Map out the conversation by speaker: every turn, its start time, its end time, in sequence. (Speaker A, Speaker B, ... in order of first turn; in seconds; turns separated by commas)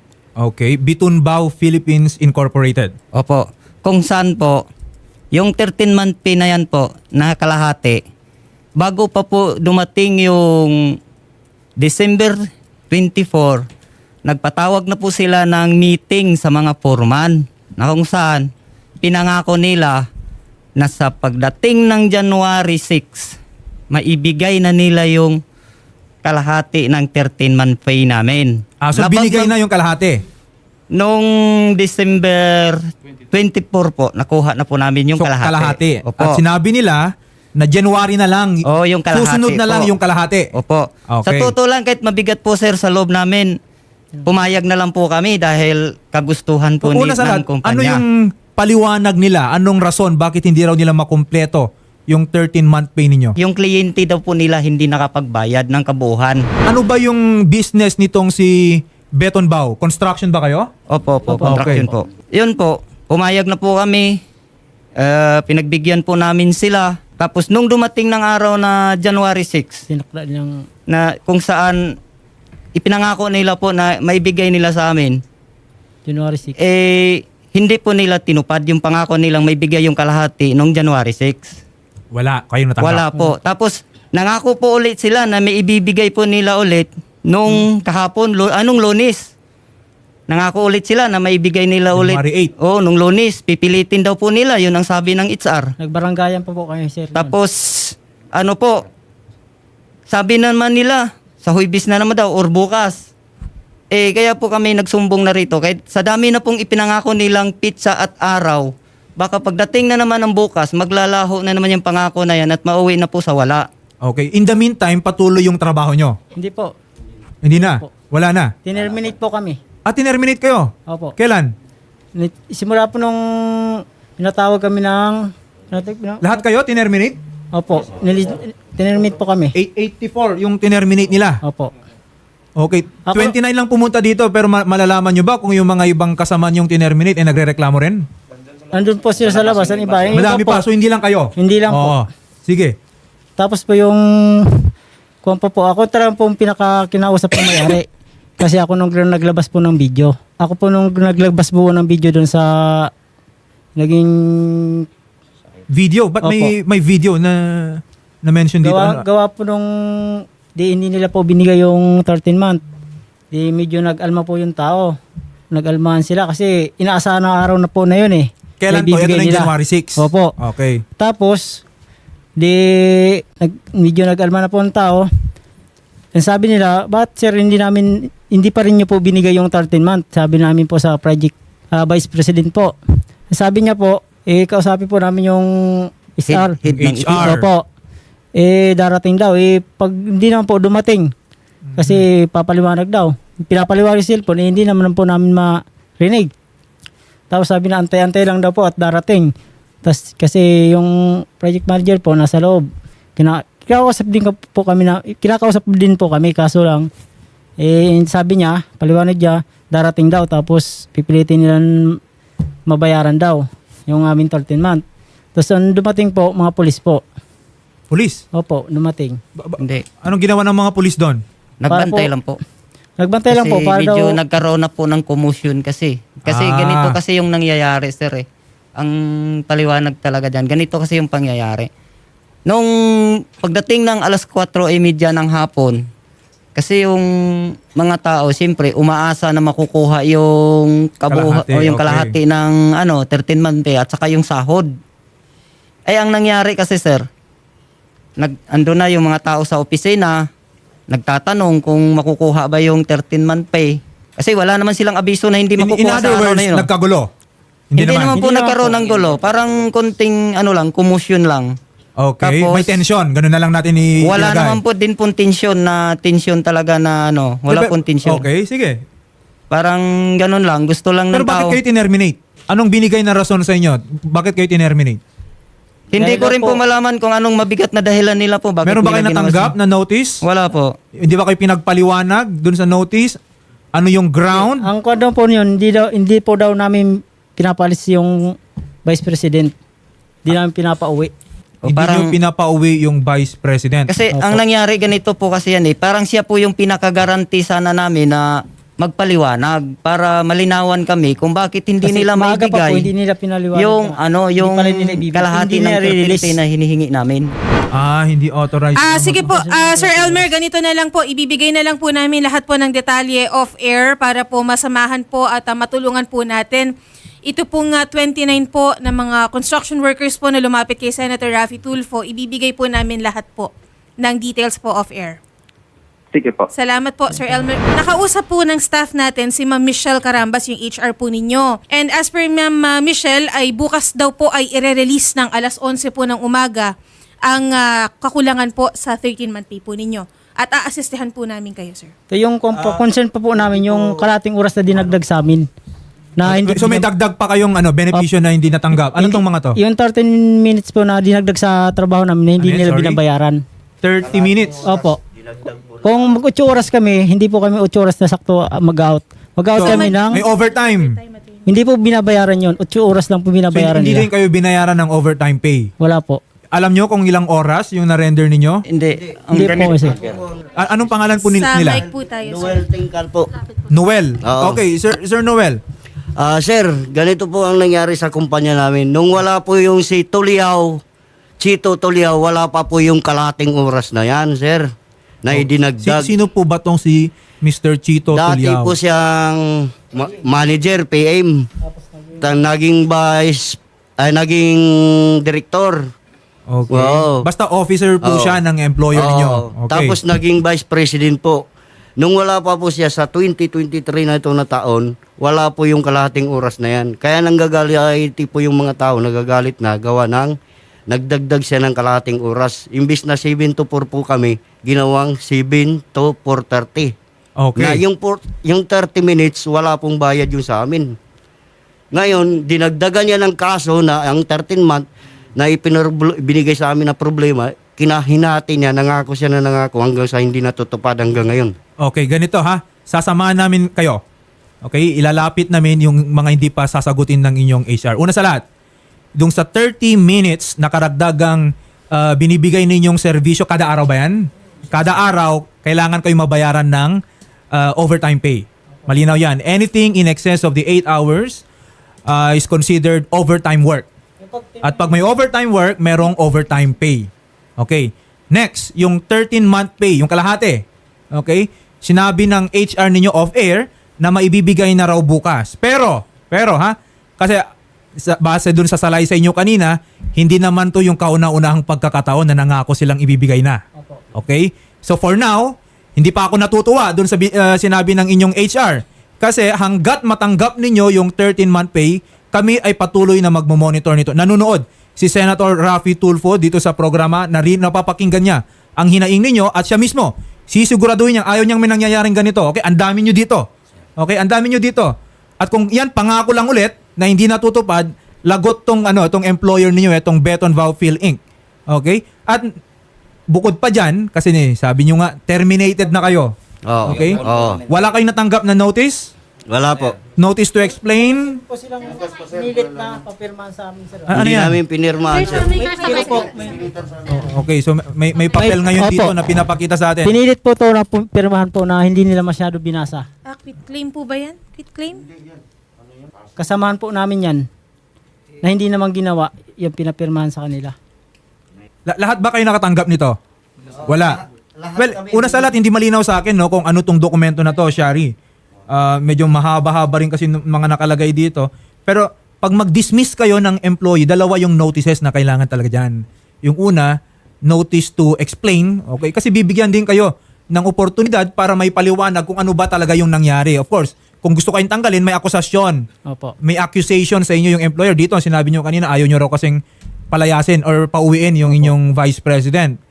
Speaker A: 0.4-2.9, Speaker B: 3.2-4.7, Speaker B: 5.3-8.0, Speaker B: 8.8-10.8, Speaker B: 11.8-13.6, Speaker B: 14.2-18.5, Speaker B: 19.0-20.0, Speaker B: 20.8-23.3, Speaker B: 23.9-25.4, Speaker B: 26.2-29.6, Speaker A: 28.8-30.2, Speaker B: 30.9-36.4, Speaker A: 35.2-40.5, Speaker B: 38.6-39.9, Speaker B: 40.5-43.5, Speaker A: 41.1-41.5, Speaker B: 44.2-48.0, Speaker A: 46.8-53.4, Speaker B: 53.4-56.4, Speaker A: 56.7-60.7, Speaker B: 60.9-64.2, Speaker C: 61.3-61.9, Speaker A: 61.4-61.9, Speaker B: 65.0-69.8, Speaker C: 69.9-70.5, Speaker B: 70.9-71.8, Speaker B: 72.8-75.2, Speaker C: 76.1-76.6, Speaker B: 76.6-81.6, Speaker A: 82.1-83.0, Speaker B: 82.8-89.3, Speaker B: 90.3-95.7, Speaker A: 91.9-92.5, Speaker C: 95.8-97.4, Speaker B: 97.1-98.8, Speaker B: 100.1-103.1, Speaker B: 103.9-113.7, Speaker A: 114.0-116.2, Speaker C: 116.4-116.7, Speaker A: 117.4-118.5, Speaker C: 117.5-117.9, Speaker C: 118.7-119.6, Speaker A: 119.9-121.5, Speaker C: 120.9-121.2, Speaker C: 122.2-126.4, Speaker A: 126.2-127.2, Speaker C: 127.5-129.5, Speaker A: 129.6-131.4, Speaker C: 131.4-131.7, Speaker A: 132.6-138.1, Speaker C: 133.1-133.4, Speaker C: 138.7-140.6, Speaker A: 140.1-142.8, Speaker C: 141.4-142.0, Speaker C: 143.4-144.0, Speaker C: 145.2-147.9, Speaker C: 148.4-152.9, Speaker C: 153.8-154.8, Speaker A: 155.7-159.0, Speaker C: 156.2-156.5, Speaker C: 158.7-162.6, Speaker C: 163.3-164.9, Speaker C: 165.5-170.3, Speaker A: 168.6-170.8, Speaker C: 171.0-171.6, Speaker C: 172.4-175.1, Speaker C: 176.1-182.8, Speaker C: 183.3-186.6, Speaker B: 186.3-187.4, Speaker A: 186.7-187.5, Speaker C: 187.2-187.6, Speaker C: 188.4-191.1, Speaker A: 191.7-192.1, Speaker C: 191.8-196.3, Speaker C: 197.3-199.3, Speaker C: 199.8-202.7, Speaker C: 203.2-206.9, Speaker C: 207.6-212.0, Speaker C: 212.7-214.8, Speaker C: 215.3-217.0, Speaker A: 217.9-218.2, Speaker C: 218.3-219.2, Speaker A: 219.4-221.2, Speaker B: 221.6-222.4, Speaker C: 221.7-222.1, Speaker C: 223.0-224.2, Speaker B: 223.3-228.2, Speaker A: 226.3-227.0, Speaker B: 228.8-231.7, Speaker B: 233.4-235.8, Speaker B: 236.6-237.1, Speaker B: 237.8-244.7, Speaker A: 241.1-242.2, Speaker B: 245.9-247.1, Speaker B: 248.2-250.2, Speaker B: 250.9-256.7, Speaker A: 255.6-257.1, Speaker A: 257.7-258.2, Speaker B: 257.8-261.6, Speaker C: 258.1-258.8, Speaker A: 262.0-264.6, Speaker B: 262.2-262.8, Speaker B: 264.1-268.3, Speaker A: 267.5-268.8, Speaker B: 269.5-271.6, Speaker A: 271.1-275.0, Speaker B: 275.9-279.5, Speaker C: 275.9-276.6, Speaker A: 278.6-280.2, Speaker B: 280.2-280.7, Speaker A: 281.0-283.2, Speaker A: 283.7-284.7, Speaker C: 284.3-289.5, Speaker C: 290.3-291.1, Speaker B: 291.6-292.1, Speaker A: 291.7-293.9, Speaker B: 293.9-302.9, Speaker C: 294.1-294.4, Speaker C: 301.8-306.4, Speaker B: 303.5-307.3, Speaker A: 307.7-308.9, Speaker D: 308.8-316.7, Speaker C: 308.9-310.3, Speaker D: 317.2-325.2, Speaker D: 326.5-336.7, Speaker D: 337.3-341.9, Speaker C: 342.1-345.5, Speaker E: 343.5-344.0, Speaker C: 346.2-346.9, Speaker A: 346.2-349.6, Speaker C: 348.9-353.4, Speaker A: 352.4-353.0, Speaker A: 353.8-354.6, Speaker E: 354.0-355.9, Speaker C: 354.6-355.0, Speaker C: 355.8-360.2, Speaker A: 359.5-361.0, Speaker D: 359.6-361.4, Speaker C: 361.5-364.1, Speaker A: 363.5-365.7, Speaker C: 365.8-366.2, Speaker A: 366.5-368.6, Speaker B: 368.7-369.9, Speaker C: 369.3-370.1, Speaker A: 370.6-371.9, Speaker D: 371.2-372.6, Speaker E: 372.2-373.3, Speaker A: 373.7-375.6, Speaker E: 374.2-374.6, Speaker E: 376.2-380.8, Speaker E: 381.4-384.7, Speaker E: 385.2-386.1, Speaker A: 385.3-388.8, Speaker E: 388.1-391.5, Speaker C: 391.6-392.3, Speaker E: 392.2-395.8, Speaker A: 396.5-400.0, Speaker E: 396.7-397.3, Speaker E: 398.0-398.4, Speaker E: 398.9-401.4, Speaker E: 402.0-410.3, Speaker E: 410.9-416.9, Speaker A: 417.4-417.8, Speaker E: 417.6-420.9, Speaker E: 421.9-424.9, Speaker E: 425.4-431.5, Speaker A: 431.8-434.0, Speaker A: 434.6-438.4, Speaker A: 439.2-447.0, Speaker A: 447.5-451.4, Speaker A: 452.1-453.9, Speaker C: 454.2-454.9, Speaker A: 454.6-467.4, Speaker A: 468.0-473.6, Speaker A: 474.1-502.5, Speaker A: 503.3-506.3, Speaker E: 506.7-507.6, Speaker A: 506.9-509.1, Speaker E: 509.5-510.0, Speaker A: 510.2-511.4, Speaker C: 510.9-514.2, Speaker A: 514.1-514.6, Speaker E: 514.1-515.5, Speaker D: 515.4-516.2, Speaker C: 515.5-517.3, Speaker A: 517.3-520.1, Speaker C: 518.4-519.2, Speaker C: 520.0-523.1, Speaker D: 523.3-525.0, Speaker C: 526.4-527.4, Speaker C: 528.4-530.8, Speaker A: 531.9-533.2, Speaker A: 533.9-534.2, Speaker E: 534.6-535.5, Speaker A: 534.8-538.1, Speaker A: 538.7-555.9, Speaker C: 556.1-556.4, Speaker A: 556.4-562.8